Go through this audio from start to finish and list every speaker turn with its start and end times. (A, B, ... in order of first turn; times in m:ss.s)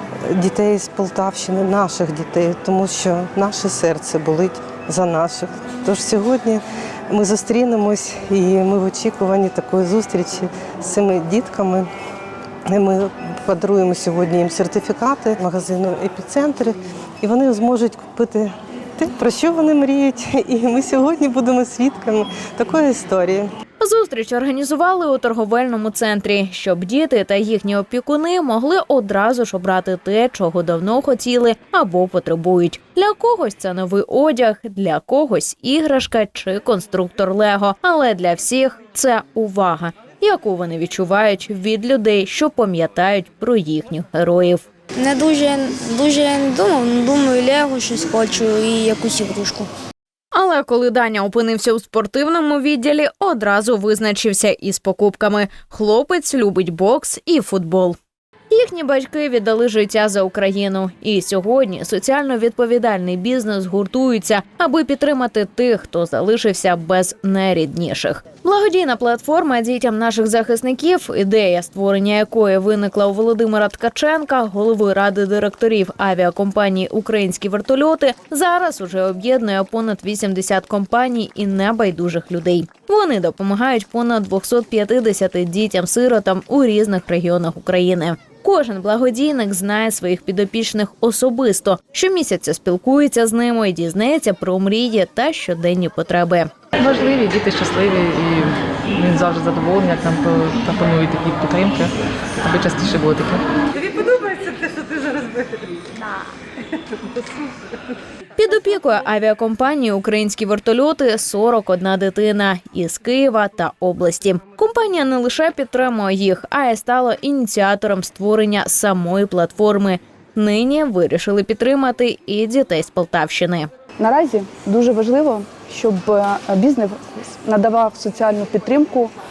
0:00.3-0:11.9 A
0:12.7-0:23.5 A
0:23.8-0:44.6 B
0:45.0-0:49.7 C
0:50.3-0:58.0 B
0:58.5-1:36.5 B
1:36.8-1:45.8 D
1:43.9-1:44.3 A
1:48.4-2:03.7 B
2:04.0-2:09.1 E